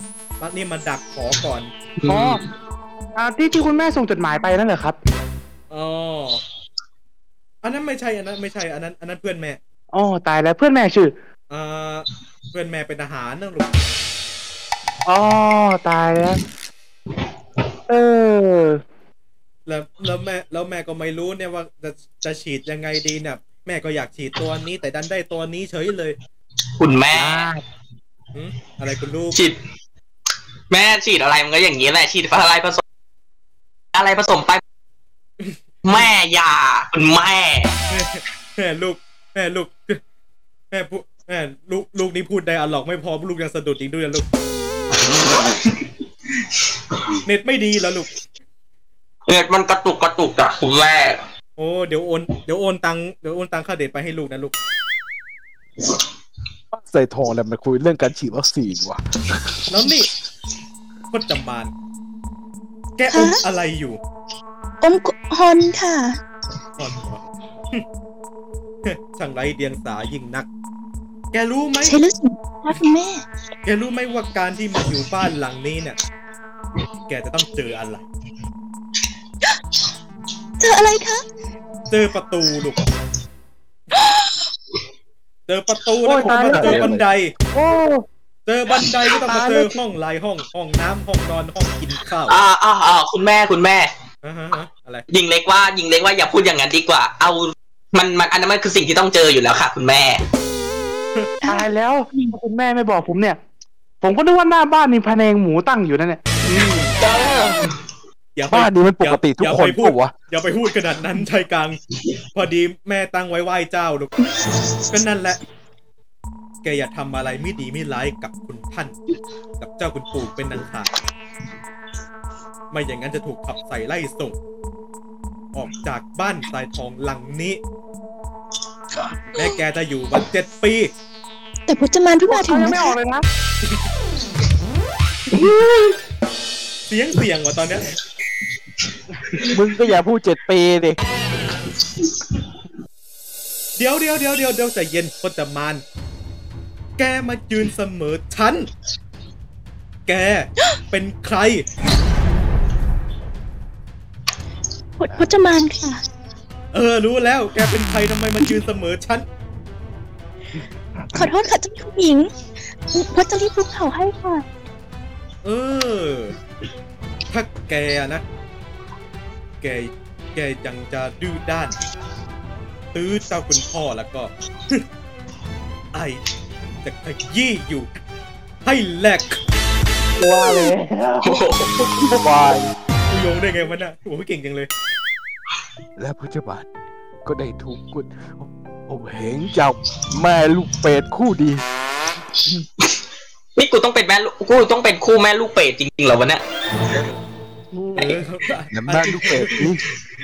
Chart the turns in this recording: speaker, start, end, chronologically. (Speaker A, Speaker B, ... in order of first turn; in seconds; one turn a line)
Speaker A: 0.4-1.7
Speaker B: 2.0-2.4
Speaker C: 2.0-2.4
Speaker C: 3.2-5.0
Speaker A: 5.7-6.4
Speaker A: 7.6-9.6
Speaker C: 9.9-11.1
Speaker A: 11.5-13.8
Speaker C: 15.1-16.4
Speaker C: 17.9-18.8
Speaker A: 19.6-26.1
Speaker B: 26.8-27.5
Speaker C: 27.1-27.6
Speaker A: 28.3-29.4
Speaker B: 30.7-32.8
Speaker B: 33.9-34.6
Speaker A: 35.4-36.1
Speaker B: 35.8-37.7
Speaker A: 37.9-40.0
Speaker A: 40.7-44.3
Speaker B: 45.0-45.8
Speaker A: 47.2-48.1
Speaker B: 49.3-51.2
Speaker A: 51.6-54.5
Speaker D: 56.7-59.6
Speaker A: 59.7-60.1
Speaker A: 61.1-61.7
Speaker A: 63.0-64.0
Speaker E: 63.1-63.4
Speaker E: 64.8-66.2
Speaker A: 66.8-67.8
Speaker A: 68.8-70.5
Speaker A: 71.3-72.0
Speaker E: 71.8-73.2
Speaker A: 73.6-76.0
Speaker A: 77.1-78.1
Speaker E: 80.6-81.2
Speaker A: 81.9-82.8
Speaker E: 83.9-84.4
Speaker A: 85.5-87.3
Speaker C: 86.0-86.9
Speaker D: 86.2-87.0
Speaker C: 87.5-88.0
Speaker A: 88.5-92.4
Speaker C: 89.2-89.7
Speaker B: 92.3-93.9
Speaker A: 94.2-95.0
Speaker B: 95.1-100.2
Speaker E: 101.4-102.3
Speaker C: 101.5-103.4
Speaker C: 104.0-106.2
Speaker A: 106.6-106.9
Speaker B: 107.0-107.8
Speaker A: 108.3-111.8
Speaker D: 108.5-110.1
Speaker A: 112.3-114.1
Speaker A: 114.9-115.4
Speaker A: 116.6-119.0
Speaker A: 119.6-120.9
Speaker A: 122.7-124.3
Speaker A: 125.5-127.6
Speaker A: 129.3-130.9
Speaker E: 131.7-132.9
Speaker C: 132.2-133.2
Speaker B: 135.3-136.0
Speaker A: 136.9-138.0
Speaker B: 139.3-139.6
Speaker D: 139.5-141.0
Speaker A: 143.8-145.8
Speaker A: 147.0-148.7
Speaker A: 150.1-151.6
Speaker E: 155.0-156.0
Speaker A: 156.7-159.2
Speaker E: 161.1-162.3
Speaker E: 162.9-164.4
Speaker A: 165.4-166.3
Speaker A: 167.3-168.2
Speaker A: 169.6-171.8
Speaker A: 172.9-174.8
Speaker A: 175.9-176.2
Speaker A: 176.8-177.9
Speaker A: 178.6-179.4
Speaker C: 180.2-181.4
Speaker B: 181.2-182.1
Speaker D: 182.2-182.7
Speaker A: 183.1-184.7
Speaker D: 186.0-186.7
Speaker D: 187.2-191.6
Speaker B: 193.6-197.0
Speaker D: 197.7-198.2
Speaker A: 197.9-199.7
Speaker D: 198.7-199.8